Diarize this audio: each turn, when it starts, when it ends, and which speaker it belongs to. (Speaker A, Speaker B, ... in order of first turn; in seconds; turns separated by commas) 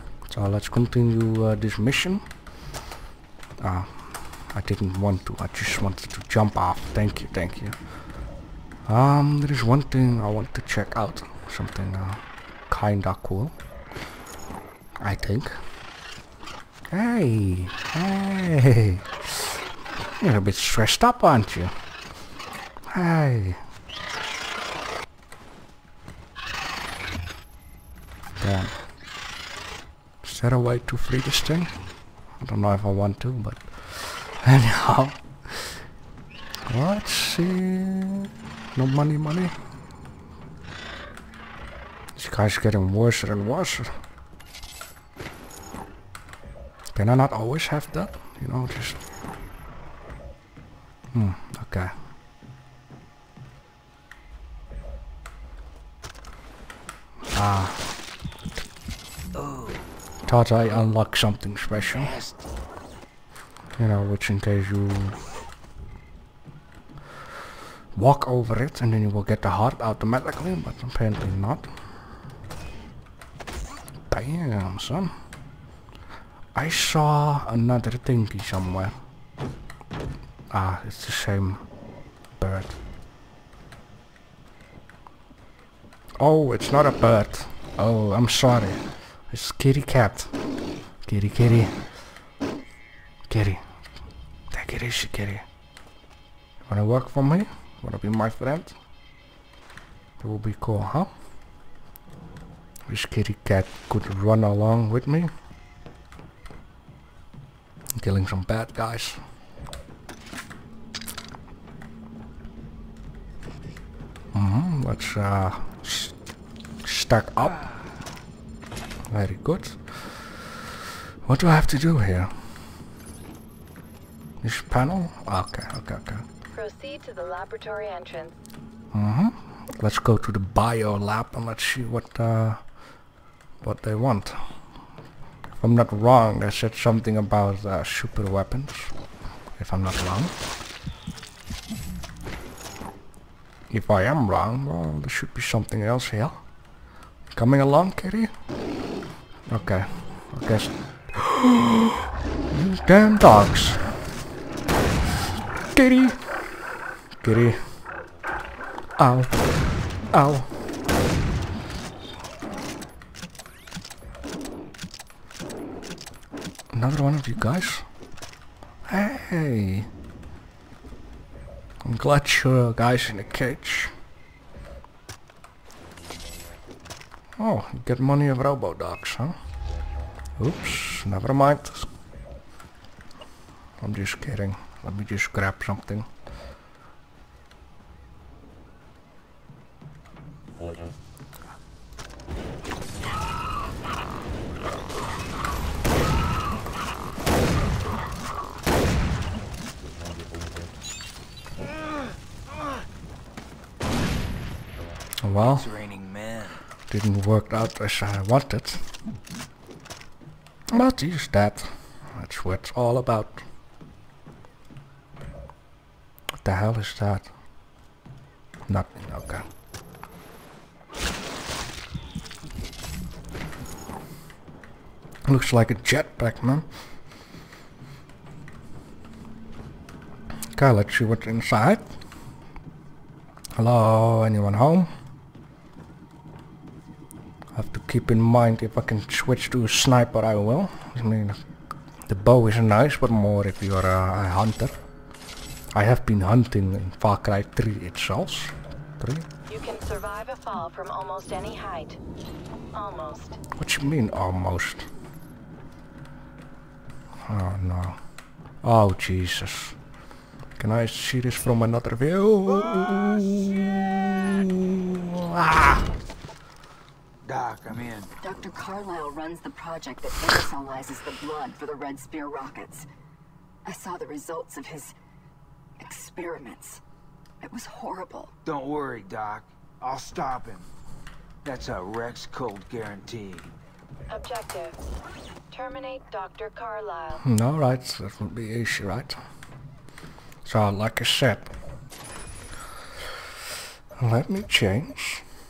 Speaker A: 0.3-2.2, Speaker A: 3.6-7.8, Speaker A: 8.9-13.5, Speaker A: 15.0-15.6, Speaker A: 16.9-19.6, Speaker A: 20.2-21.7, Speaker A: 22.9-23.6, Speaker A: 28.4-28.7, Speaker A: 30.2-31.7, Speaker A: 32.4-35.8, Speaker A: 36.7-39.5, Speaker A: 42.1-43.9, Speaker A: 47.0-49.0, Speaker A: 51.1-51.9, Speaker A: 57.3-58.0, Speaker B: 59.3-59.9, Speaker A: 60.3-62.1, Speaker B: 61.9-62.5, Speaker A: 63.8-65.2, Speaker A: 68.0-71.7, Speaker A: 74.1-75.1, Speaker A: 76.5-78.9, Speaker A: 80.5-81.6, Speaker A: 82.4-82.8, Speaker A: 86.2-90.3, Speaker A: 91.1-91.8, Speaker A: 93.3-93.6, Speaker A: 94.5-95.5, Speaker A: 96.6-98.8, Speaker A: 100.2-101.1, Speaker A: 102.9-105.3, Speaker A: 108.0-109.2, Speaker A: 114.3-116.1, Speaker A: 116.8-117.6, Speaker B: 117.4-117.9, Speaker A: 119.1-119.9, Speaker A: 121.2-122.3, Speaker A: 124.4-126.2, Speaker C: 126.5-128.4, Speaker A: 128.9-132.6, Speaker A: 133.6-134.4, Speaker A: 135.5-138.9, Speaker A: 139.6-140.3, Speaker A: 143.7-146.4, Speaker A: 147.3-148.3, Speaker A: 149.5-154.0, Speaker A: 155.7-156.4, Speaker A: 157.2-157.6, Speaker A: 159.0-159.5, Speaker A: 160.1-160.5, Speaker A: 166.7-167.9, Speaker A: 168.9-169.9, Speaker A: 171.8-173.9, Speaker A: 177.4-179.3, Speaker A: 180.4-181.9, Speaker A: 183.8-186.1, Speaker A: 205.2-205.7, Speaker B: 205.4-206.6, Speaker A: 206.9-208.8, Speaker A: 210.7-213.4, Speaker A: 216.4-217.3, Speaker A: 218.7-219.5, Speaker A: 225.3-226.7, Speaker A: 230.6-231.8, Speaker A: 233.6-234.9, Speaker A: 237.6-241.4, Speaker A: 242.1-244.8, Speaker A: 245.7-249.3, Speaker C: 249.5-252.0, Speaker C: 252.7-253.4, Speaker A: 253.6-254.9, Speaker A: 257.3-258.0, Speaker A: 258.6-259.8, Speaker A: 260.6-265.9, Speaker B: 267.2-268.1, Speaker D: 268.2-272.9, Speaker D: 273.7-274.9, Speaker D: 275.8-276.8, Speaker D: 277.4-278.3, Speaker B: 278.4-280.7, Speaker B: 281.4-283.5, Speaker C: 284.1-284.8, Speaker C: 285.5-287.2, Speaker A: 287.2-289.2, Speaker A: 290.4-291.5, Speaker A: 294.0-295.2